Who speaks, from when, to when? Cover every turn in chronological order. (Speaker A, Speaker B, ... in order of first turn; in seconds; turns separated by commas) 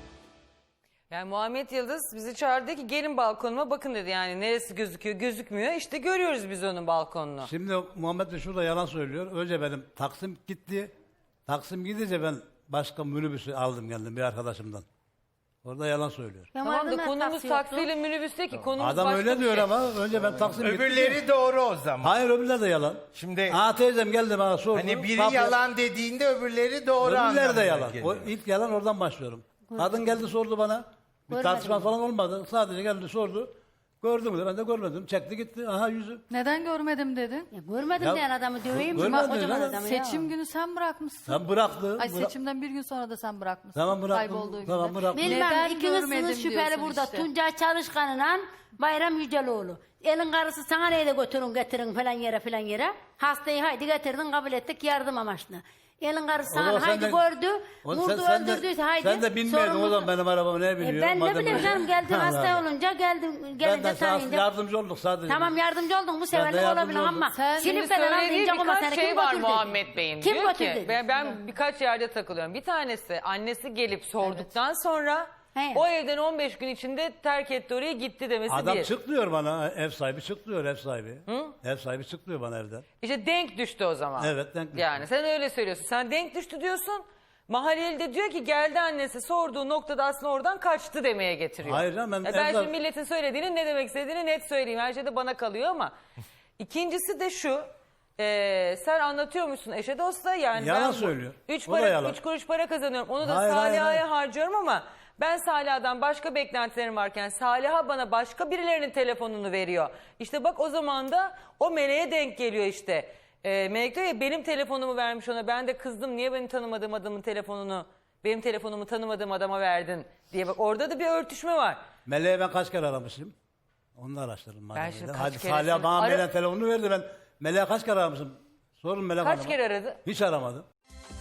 Speaker A: 1.1-7.5, Speaker B: 7.4-10.9, Speaker B: 11.5-14.8, Speaker B: 15.6-16.5, Speaker C: 16.5-17.9, Speaker A: 16.6-19.7, Speaker B: 18.8-21.3, Speaker D: 20.1-22.2, Speaker B: 22.0-25.6, Speaker D: 23.1-23.6, Speaker D: 24.7-28.3, Speaker B: 27.0-33.5, Speaker C: 29.7-30.1, Speaker C: 31.3-31.9, Speaker B: 34.0-36.2, Speaker E: 36.3-37.5, Speaker C: 37.5-40.3, Speaker B: 38.0-39.8, Speaker E: 39.0-47.3, Speaker B: 41.2-42.4, Speaker B: 43.7-45.3, Speaker C: 45.1-60.1, Speaker B: 56.5-57.2, Speaker B: 57.8-62.6, Speaker C: 60.8-64.5, Speaker B: 63.6-65.5, Speaker C: 65.2-71.5, Speaker B: 66.3-67.2, Speaker E: 67.3-67.7, Speaker A: 67.6-78.9, Speaker C: 75.5-75.8, Speaker B: 78.5-82.8, Speaker A: 81.3-81.5, Speaker A: 83.0-95.9, Speaker B: 84.2-85.0, Speaker B: 91.6-92.7, Speaker A: 96.6-97.7, Speaker A: 98.2-121.8, Speaker B: 100.5-102.2, Speaker B: 103.2-104.0, Speaker B: 122.0-123.3, Speaker B: 124.0-130.7, Speaker A: 124.7-126.2, Speaker A: 129.2-130.0